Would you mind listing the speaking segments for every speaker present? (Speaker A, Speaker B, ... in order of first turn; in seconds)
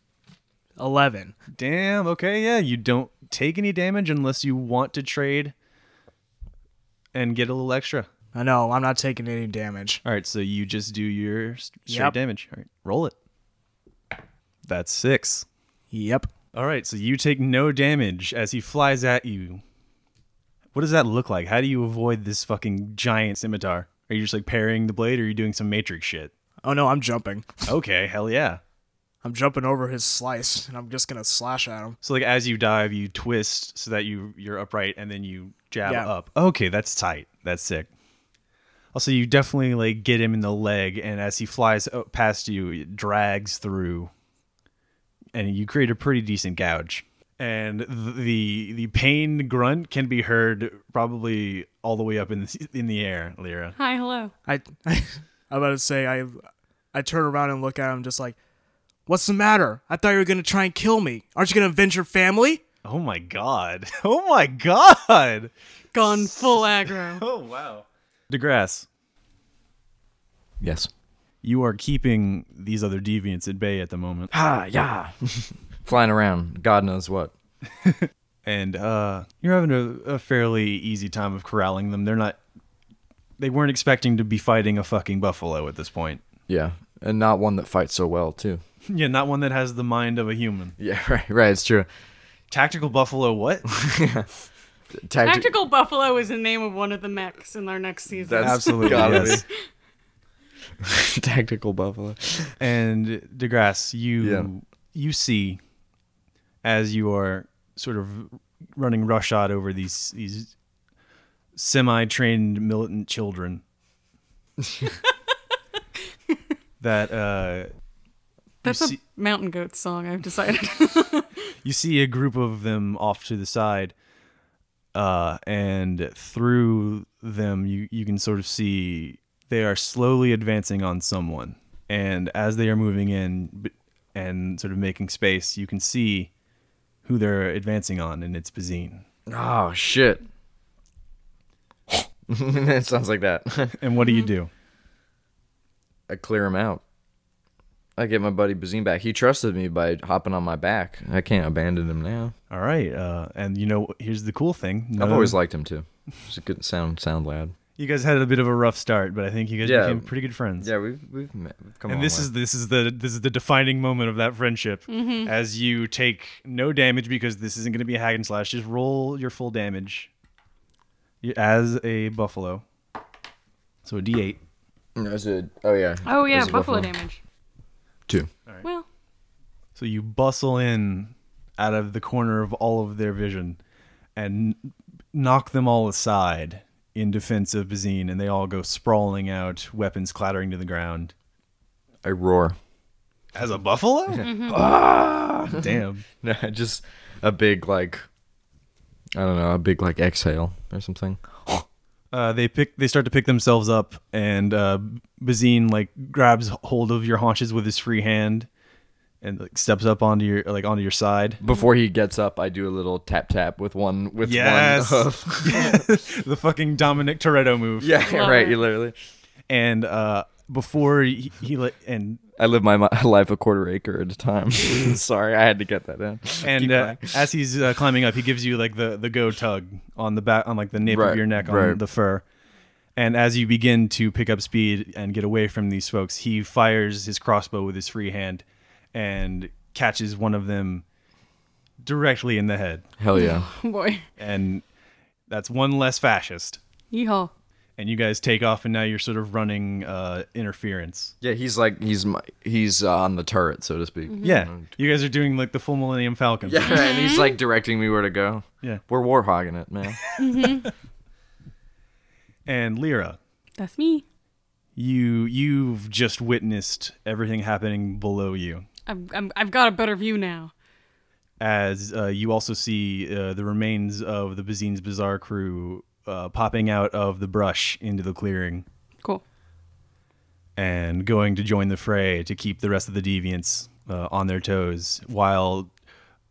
Speaker A: 0.8-1.3, 8.3-10.0, 11.9-12.1, 15.9-16.3, 26.6-27.7, 29.2-32.0, 35.8-36.1, 54.5-56.4, 56.9-58.4, 59.1-62.6
Speaker B: 1.6-5.5, 7.1-8.1, 10.0-13.1, 14.7-15.4, 16.5-19.6, 20.7-26.3, 27.7-28.6, 32.0-37.9, 38.9-44.1, 45.3-53.7, 62.8-65.5, 66.0-68.9, 71.4-74.3, 77.8-82.4, 83.4-86.2, 88.9-90.7, 92.5-93.7, 98.4-99.4, 102.6-105.6, 106.6-110.5, 111.5-113.6, 116.8-117.7, 118.6-119.0, 121.6-123.9, 124.9-136.3, 137.0-139.0, 143.8-144.5, 152.5-155.4, 157.8-160.7, 161.9-170.1, 171.2-172.6, 173.8-174.4, 179.8-183.6, 184.2-191.1, 193.3-194.3, 195.5-196.0, 202.1-208.5, 209.2-211.4, 214.2-218.1, 219.5-222.2, 226.4-232.2, 232.9-240.8, 241.8-242.8, 244.2-244.6, 245.3-246.6, 247.8-251.1, 254.2-256.8, 262.5-263.2, 264.8-268.6, 271.4-278.6, 280.6-285.7
Speaker C: 53.8-54.3, 65.9-67.2, 95.2-99.4, 118.6-121.4, 164.9-165.3, 176.0-177.2, 194.2-194.7, 218.0-218.6, 243.1-244.0, 246.9-247.3, 256.6-257.4, 260.2-260.7, 263.6-264.0, 268.9-270.5
Speaker D: 70.6-70.9, 74.3-77.3, 86.5-88.6, 90.8-91.9, 93.7-94.3, 94.9-95.5, 98.1-99.4, 100.8-102.5, 104.2-104.5, 139.3-140.2, 141.9-143.8, 146.1-146.8, 148.0-152.3, 154.9-157.5, 159.6-160.1, 160.6-162.3, 174.9-176.9, 192.0-192.6, 194.1-198.0, 199.1-201.7, 211.4-215.9, 217.8-218.9, 222.4-227.0, 230.8-231.8, 243.0-243.5, 251.2-254.6, 256.4-260.0